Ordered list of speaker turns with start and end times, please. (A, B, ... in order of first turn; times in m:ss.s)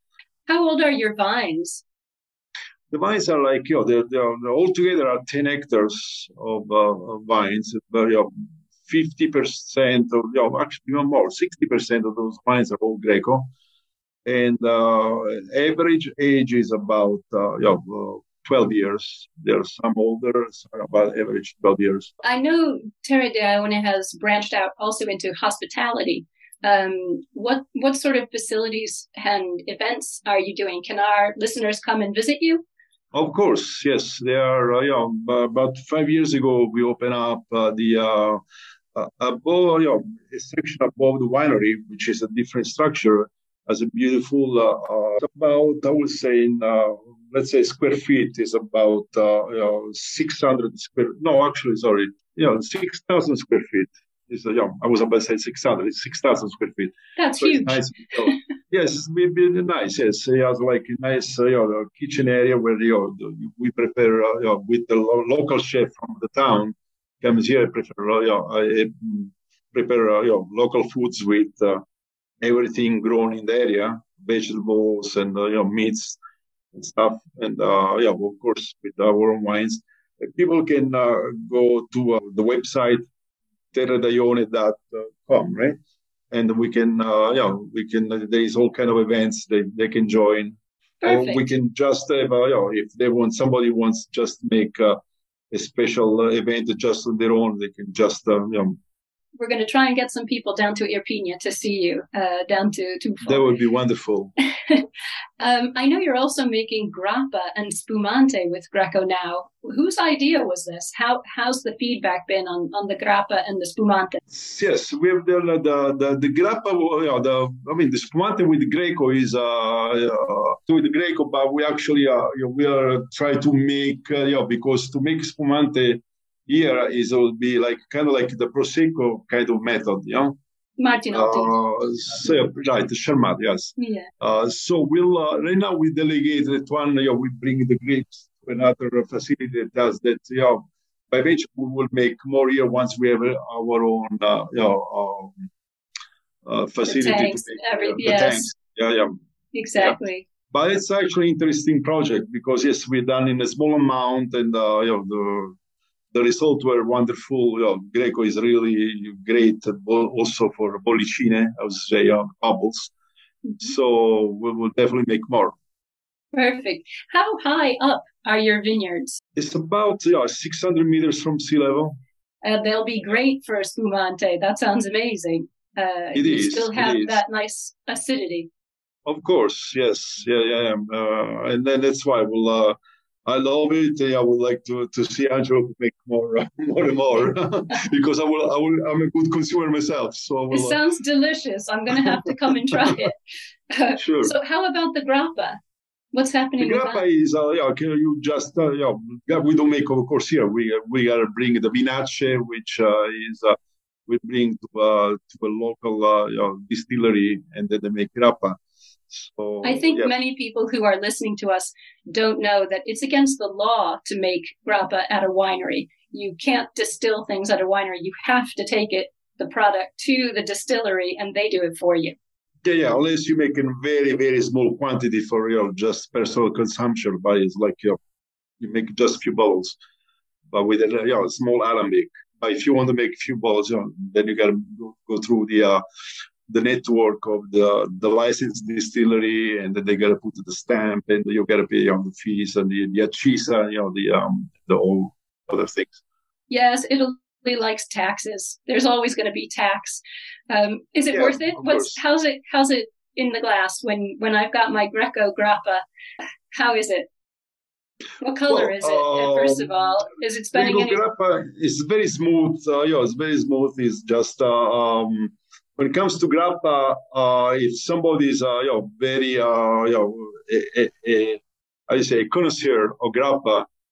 0:00.5-0:01.8 A
0:02.9-0:08.3 B
0:08.8-0:13.5 B
0:14.2-0:22.1 B
0:22.2-0:32.6 A
0:33.1-0:38.4 B
0:38.9-1:11.8 B
0:57.2-0:58.3 A
1:12.4-1:16.2 B
1:16.7-1:23.0 B
1:23.7-1:25.8 B
1:26.3-1:35.0 B
1:31.0-1:31.4 A
1:35.5-1:38.8 B
1:39.4-1:43.5 A
1:43.2-1:44.3 B
1:45.4-1:54.2 A
1:54.3-2:10.4 B
2:10.8-2:11.6 A
2:11.1-2:25.4 B
2:13.8-2:14.1 A
2:26.4-2:29.1 B
2:26.9-2:28.5 A
2:29.5-2:30.2 A
2:30.5-2:35.6 B
2:36.1-2:42.9 B
2:43.6-2:45.5 B
2:46.3-2:49.2 A
2:49.4-2:52.0 B
2:52.4-2:58.5 A
2:56.1-2:57.2 B
2:59.0-3:10.8 B
3:10.5-3:13.2 A
3:13.7-3:15.6 A
3:14.0-3:14.3 B
3:16.1-3:17.0 A
3:16.6-3:23.6 B
3:24.1-3:28.6 B
3:29.1-3:30.1 B
3:29.6-3:42.1 A
3:42.6-3:48.0 B
3:48.6-3:49.8 B
3:50.5-3:55.8 B
3:56.5-4:06.0 B
4:06.5-4:15.8 A
4:11.1-4:12.0 B
4:16.5-4:17.1 A
4:18.2-4:21.0 A
4:18.5-4:19.7 B
4:20.5-4:33.6 B